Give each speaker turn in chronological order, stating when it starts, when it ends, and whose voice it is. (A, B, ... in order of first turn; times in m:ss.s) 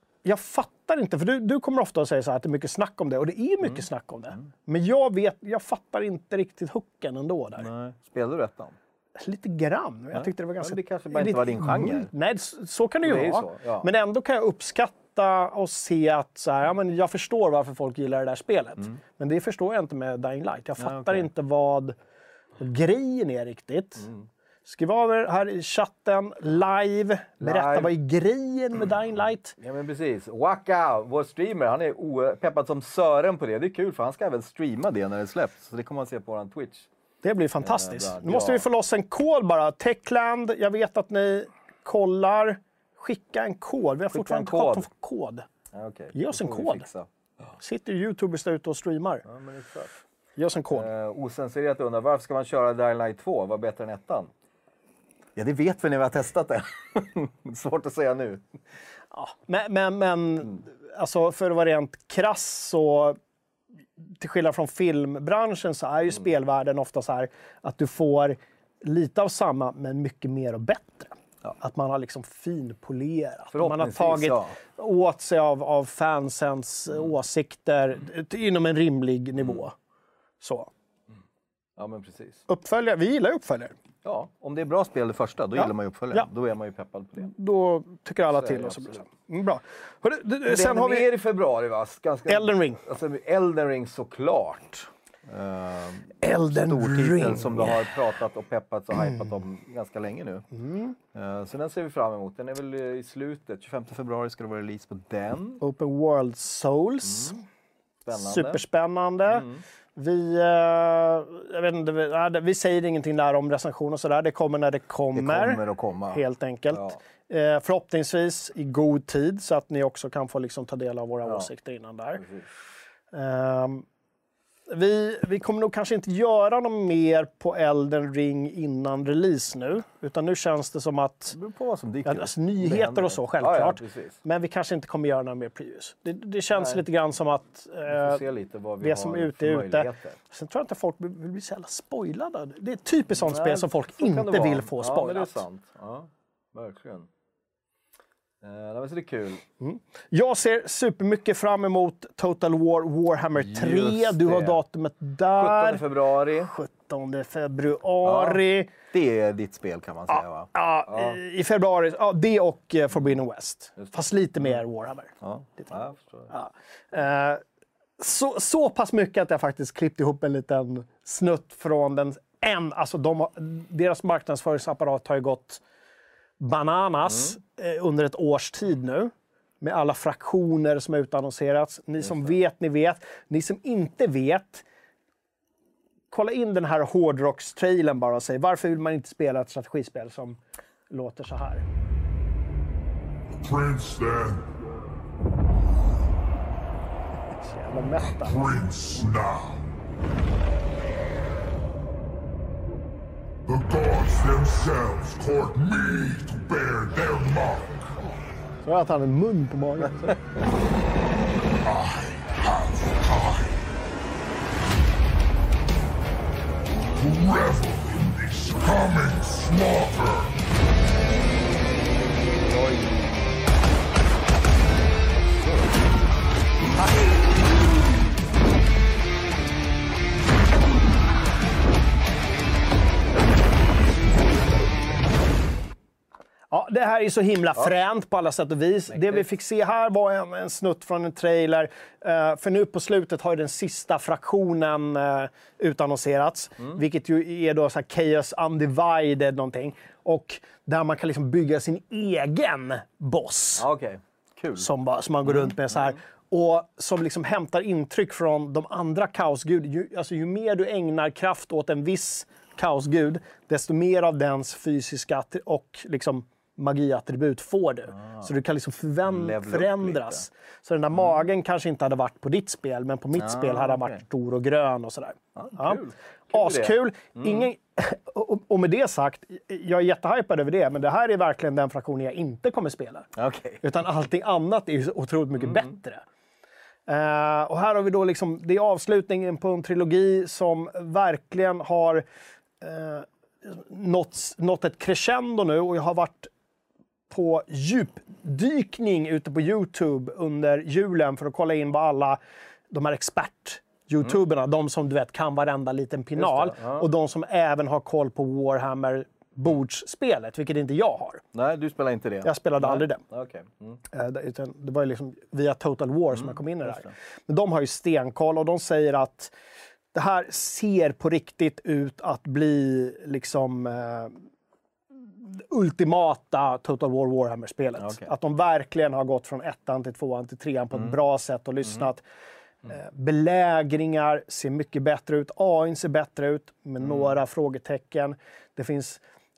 0:00.2-0:07.7 A
0:03.6-0:04.5 B
0:07.6-0:08.8 B
0:09.2-0:22.0 A
0:10.1-0:12.1 B
0:13.0-0:13.9 B
0:20.8-0:21.3 B
0:22.6-0:24.1 A
0:24.0-0:24.3 B
0:24.6-0:29.6 A
0:27.4-0:27.9 B
0:29.6-0:36.9 B
0:37.2-0:45.5 A
0:37.6-0:38.7 B
0:44.1-0:44.9 B
0:45.7-0:47.1 B
0:46.1-0:46.9 A
0:47.6-0:49.2 A
0:49.3-0:50.0 B
0:50.4-0:50.9 A
0:50.7-0:54.3 B
0:55.4-0:58.4 B
0:59.1-1:03.2 A
1:04.2-1:19.7 A
1:13.5-1:14.6 B
1:19.4-1:19.6 B
1:20.4-1:20.7 A
1:21.8-1:22.4 B
1:22.5-1:23.7 A
1:24.0-1:27.3 B
1:25.6-1:26.3 A
1:27.2-1:31.1 A
1:28.3-1:29.1 B
1:30.4-1:40.5 B
1:32.3-1:32.8 A
1:36.2-1:37.9 A
1:40.5-1:41.0 A
1:41.1-1:45.6 B
1:45.6-1:47.4 A
1:47.0-1:47.4 B
1:48.0-1:48.6 B
1:48.1-2:02.2 A
1:49.3-1:49.6 B
1:55.1-1:57.0 B
2:01.2-2:01.5 B
2:02.2-2:02.5 B
2:03.1-2:03.8 A
2:04.7-2:11.4 A
2:11.3-2:14.2 B
2:12.0-2:18.2 A
2:16.5-2:16.8 B
2:17.9-2:20.2 B
2:18.8-2:25.4 A
2:23.1-2:27.1 B
2:28.4-2:29.4 B
2:29.6-2:38.7 A
2:33.4-2:34.6 B
2:35.3-2:36.5 B
2:38.0-2:41.2 B
2:40.1-2:47.4 A
2:43.8-2:44.6 B
2:45.2-2:46.3 B
2:48.0-2:55.6 A
2:56.4-3:04.6 A
2:57.0-2:57.4 B
3:02.0-3:02.4 B
3:06.1-3:10.4 A
3:10.9-3:11.6 A
3:13.3-3:14.5 C
3:17.3-3:18.6 A
3:18.2-3:19.6 C
3:23.5-3:27.9 C
3:28.6-3:30.2 A
3:31.7-3:33.5 C
3:37.0-3:40.4 C
3:42.3-3:43.1 B
3:45.1-3:45.8 B
3:56.5-4:13.7 A
3:58.9-3:59.3 B
4:13.6-4:14.7 B
4:14.6-4:43.1 A
4:15.2-4:16.0 B
4:27.9-4:28.3 B
4:29.0-4:30.3 B
4:30.9-4:31.2 B
4:33.2-4:34.0 B
4:35.4-4:37.5 B
4:43.2-4:43.6 B
4:43.6-4:46.0 A
4:45.4-4:45.7 B
4:46.9-4:52.0 A
4:52.6-4:56.3 A
4:57.1-5:02.2 A
5:02.7-5:11.2 A
5:06.2-5:06.9 B
5:11.3-5:13.8 B
5:12.2-5:13.0 A
5:13.9-5:19.3 A
5:16.1-5:16.9 B
5:19.9-5:24.1 A
5:25.1-5:32.0 A
5:27.8-5:28.1 B
5:32.7-5:39.0 A
5:36.8-5:37.2 B